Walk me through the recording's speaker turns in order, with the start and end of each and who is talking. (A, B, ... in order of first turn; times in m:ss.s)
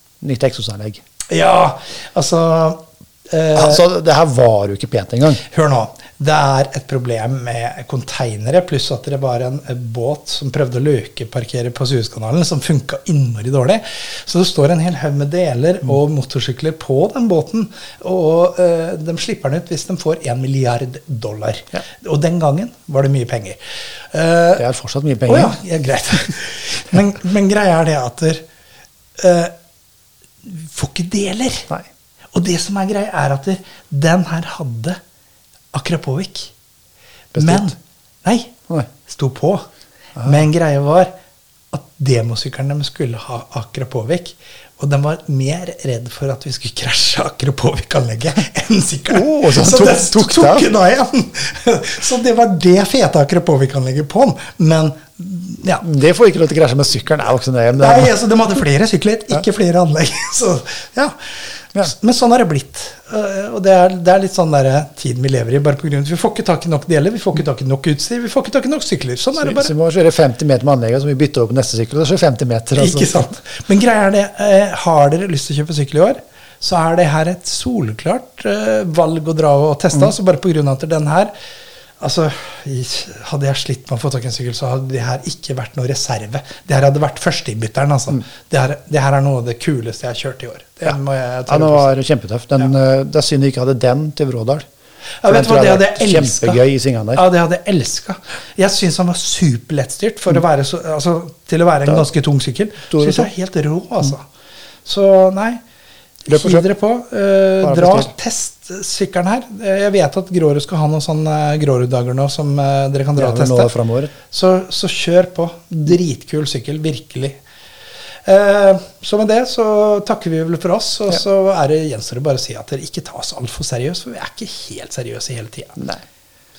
0:00.2-0:01.0 A
0:01.3-0:03.8 B
0:03.5-0:05.4 A
0:05.4-0:23.6 B
0:24.1-0:24.6 B
0:24.6-0:25.6 A
0:25.3-0:28.4 B
0:29.2-0:29.5 B
0:30.4-0:31.7 B
0:32.3-0:35.0 B
0:35.7-0:36.5 B
0:37.3-0:37.7 A
0:37.4-0:38.5 B
0:39.0-0:39.6 B
0:40.2-0:41.1 B
0:41.7-0:55.8 B
0:49.1-0:50.7 A
0:55.8-0:58.1 A
0:57.8-1:01.2 B
1:01.8-1:09.7 B
1:09.4-1:13.4 A
1:12.8-1:21.3 B
1:22.0-1:32.0 B
1:31.5-1:34.6 A
1:35.2-1:36.6 B
1:35.3-1:37.2 A
1:37.1-1:44.2 B
1:42.9-1:43.3 A
1:44.8-1:45.6 B
1:46.2-1:53.7 B
1:46.3-1:46.6 A
1:47.6-1:48.1 A
1:53.2-1:54.1 A
1:54.3-1:57.4 B
1:58.2-2:05.8 B
2:05.8-2:06.0 A